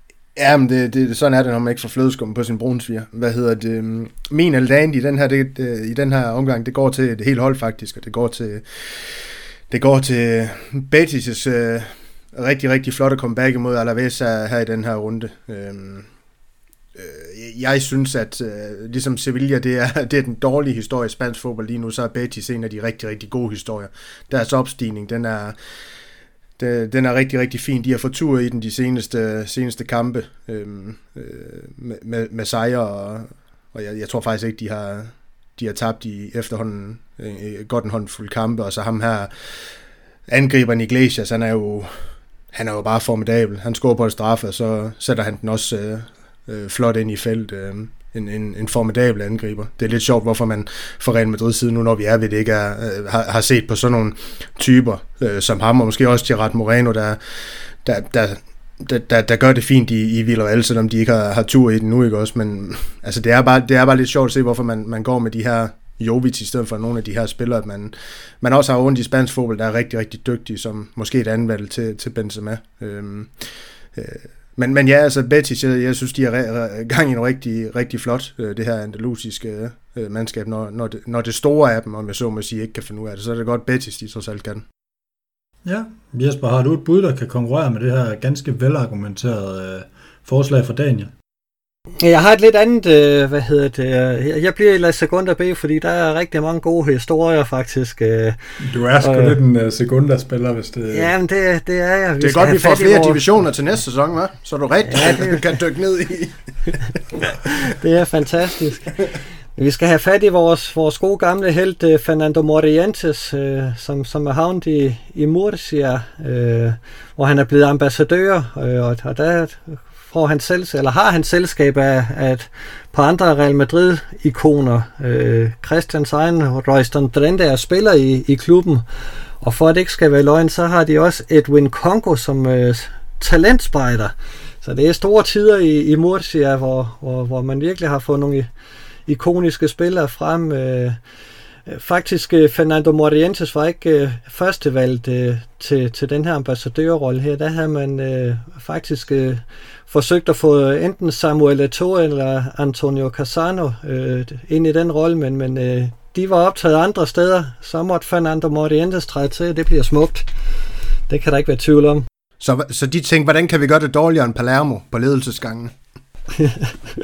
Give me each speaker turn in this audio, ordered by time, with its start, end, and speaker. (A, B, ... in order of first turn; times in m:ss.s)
0:00.4-0:09.1 A
0:09.7-0:16.1 A
0:16.9-0:25.6 A
0:26.6-0:39.3 A
0:40.3-0:41.9 A
0:42.5-0:57.2 A
0:57.8-1:13.4 A
1:13.9-1:24.6 A
1:25.6-1:31.1 B
1:32.0-1:38.4 C
1:38.6-1:41.1 B
1:39.0-1:39.4 C
1:40.9-1:43.2 C
1:42.2-1:46.4 A
1:44.8-1:45.5 C
1:47.5-1:49.0 C
1:49.6-2:08.8 C
2:09.4-2:18.5 C
2:19.1-2:21.0 C
2:21.7-2:40.3 C
2:41.1-2:42.0 C
2:42.4-2:45.7 A
2:46.4-2:46.7 C